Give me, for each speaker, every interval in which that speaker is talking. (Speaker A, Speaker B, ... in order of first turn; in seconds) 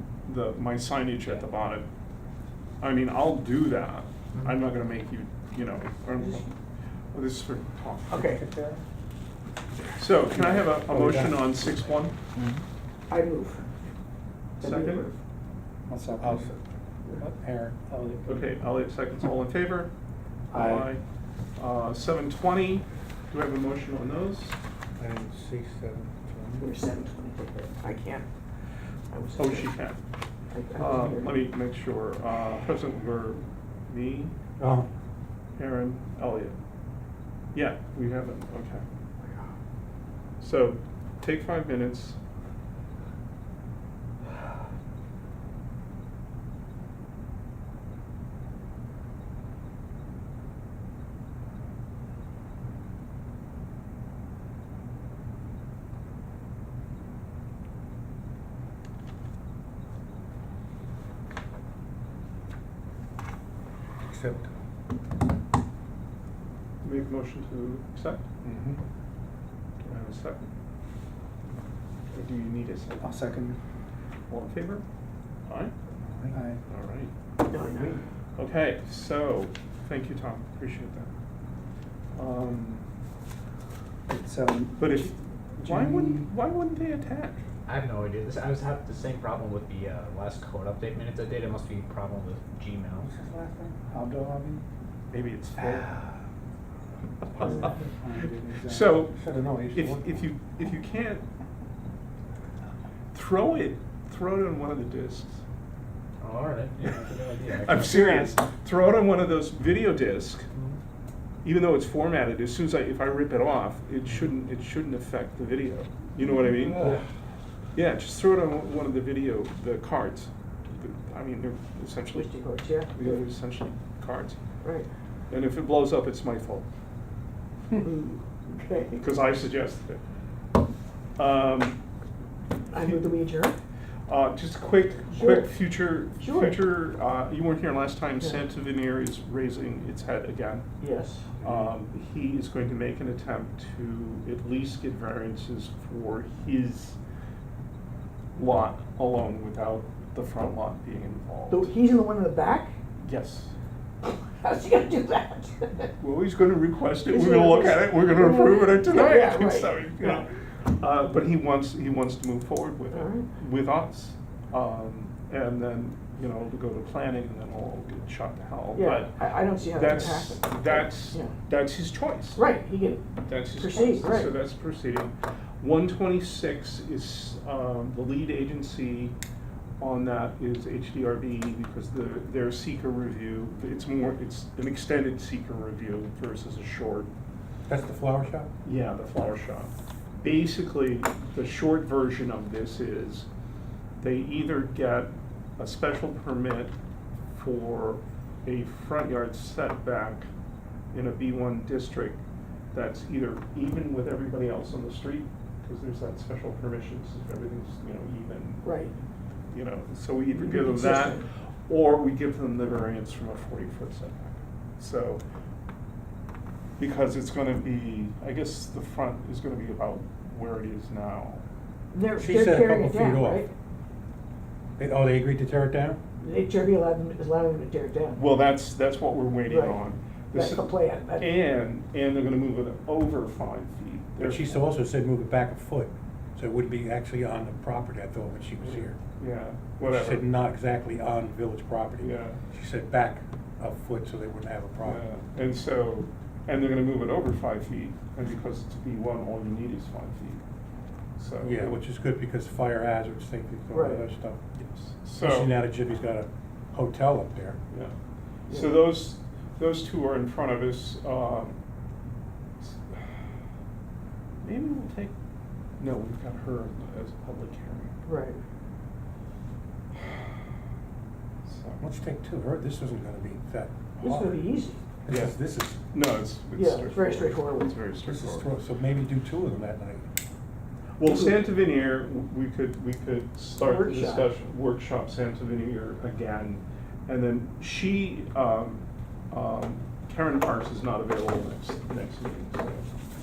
Speaker A: 0.2-1.9, 2.8-6.5, 7.1-8.3, 10.0-12.2, 14.6-15.1, 18.3-19.9, 20.5-21.0, 21.6-24.6, 29.4-30.0, 30.8-34.3, 35.5-36.6, 37.5-38.8, 40.4-42.2, 66.8-68.2, 69.8-70.5, 72.1-73.2, 74.3-74.8, 75.5-75.7, 76.7-77.1, 78.4-81.1, 82.1-82.9, 84.8-87.4, 95.1-96.0, 97.4-97.7, 98.6-99.2, 99.7-101.2, 103.1-105.4, 107.5-110.5, 111.4-117.0, 117.8-124.4, 125.3-126.7, 128.9-130.0, 131.2-131.8, 132.8-133.0, 134.1-140.7, 141.4-147.0, 148.3-151.7, 153.0-153.5, 156.0-169.2, 169.7-172.4, 173.2-179.2, 179.8-187.1, 188.6-193.3, 194.0-196.7, 197.3-200.3, 200.9-202.2, 202.7-209.0, 209.5-215.2, 216.8-221.4, 228.2-234.6, 238.6-240.3, 242.0-242.4, 244.8-250.4, 251.2-251.8, 254.6-255.5, 258.5-261.6, 262.6-263.1, 264.4-265.1, 265.8-268.0, 271.4-271.8, 275.1-275.3, 275.9-278.5, 281.0-292.9
Speaker B: 6.2-6.5, 8.1-8.4, 13.1-13.7, 14.6-15.2, 26.6-28.3, 29.1-29.8, 30.5-31.3, 77.5-78.0, 122.1-123.2, 124.6-124.9, 127.8-129.1, 132.7-133.6, 135.1-135.5, 136.2-136.6, 140.8-141.3, 151.5-152.8, 154.0-155.9, 157.1-160.2, 162.9-163.3, 168.7-171.3, 172.3-174.3, 208.6-208.9, 210.3-211.2, 221.9-223.5, 226.2-228.2, 229.5-229.8, 230.3-231.3, 253.7-254.0, 258.5-258.8, 268.0-268.4, 274.0-274.8, 276.5-277.8, 283.6-284.3
Speaker C: 8.2-8.8, 10.3-11.6, 16.2-18.4, 25.0-26.7, 34.6-34.9, 64.1-64.5, 68.4-68.8, 76.0-76.4, 93.0-93.9, 97.3-100.1, 116.7-117.0, 141.4-141.7, 187.7-188.5, 222.2-223.4, 224.8-226.0, 234.2-239.0, 239.8-245.0, 251.4-254.4, 255.2-257.6, 271.8-274.4, 275.0-275.8, 278.0-280.0
Speaker D: 12.4-12.6, 87.7-93.1, 106.2-108.3, 116.8-117.0
Speaker E: 15.9-16.3, 73.0-73.5, 84.1-84.8, 85.7-86.3, 93.9-94.6